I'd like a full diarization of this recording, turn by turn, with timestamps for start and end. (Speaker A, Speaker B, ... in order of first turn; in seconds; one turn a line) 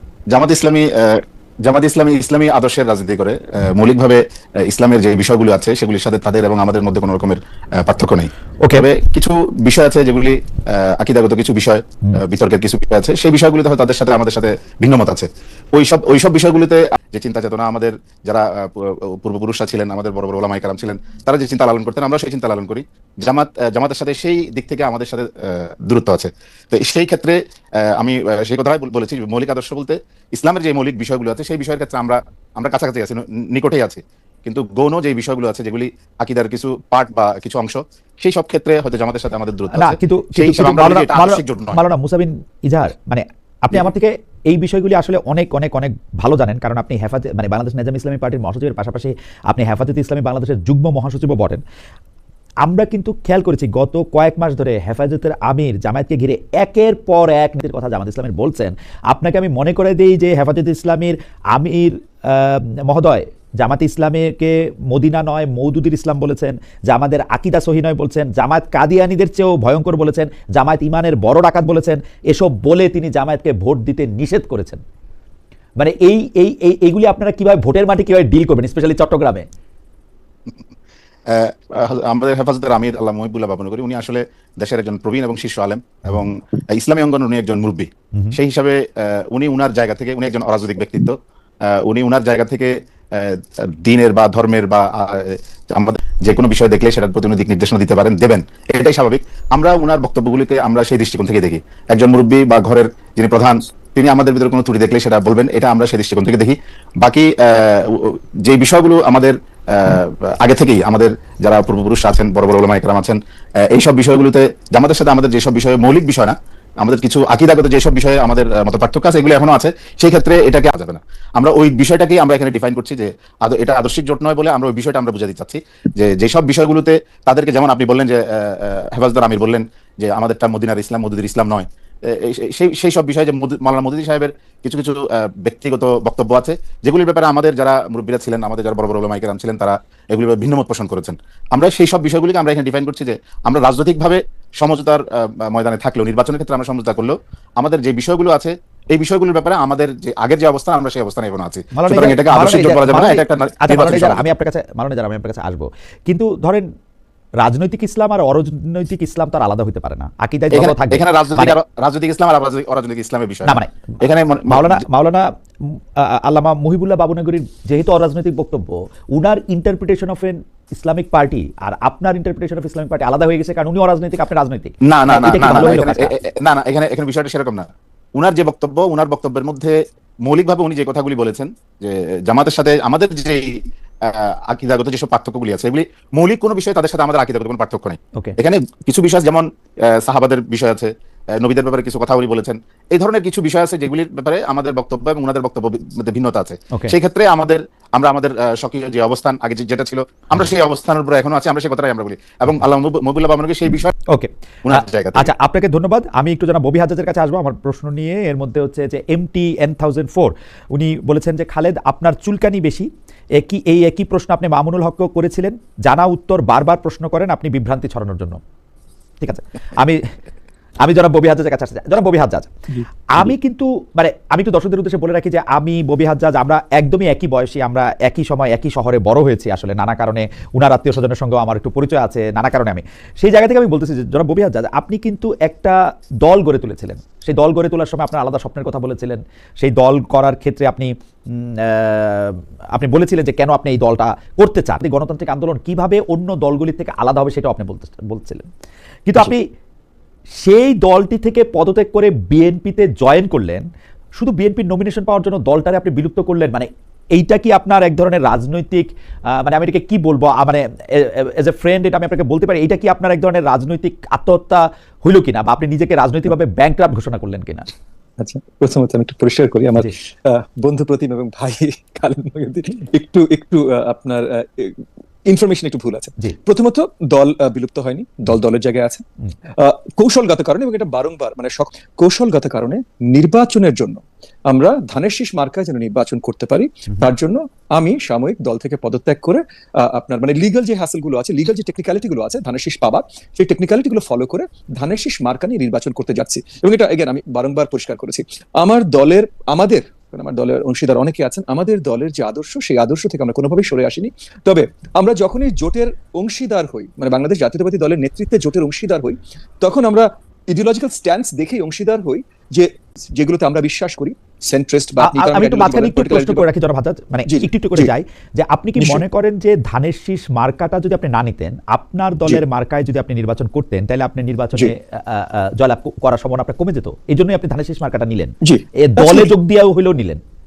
Speaker A: 0.3-41.8
Speaker B: 39.7-51.6
Speaker B: 52.6-74.8
Speaker B: 75.8-79.5
Speaker A: 81.3-154.3
Speaker B: 151.7-156.7
Speaker B: 157.4-161.6
Speaker A: 160.5-164.8
Speaker B: 163.4-163.9
Speaker B: 164.5-176.2
Speaker A: 174.8-203.9
Speaker B: 204.1-218.4
Speaker A: 204.7-205.3
Speaker B: 219.2-220.0
Speaker B: 220.8-222.5
Speaker C: 222.7-223.3
Speaker B: 223.1-248.5
Speaker B: 249.1-249.4
Speaker B: 250.4-253.6
Speaker B: 254.2-267.7
Speaker C: 268.2-316.5
Speaker B: 315.0-330.2
Speaker C: 317.3-317.9
Speaker C: 328.4-329.3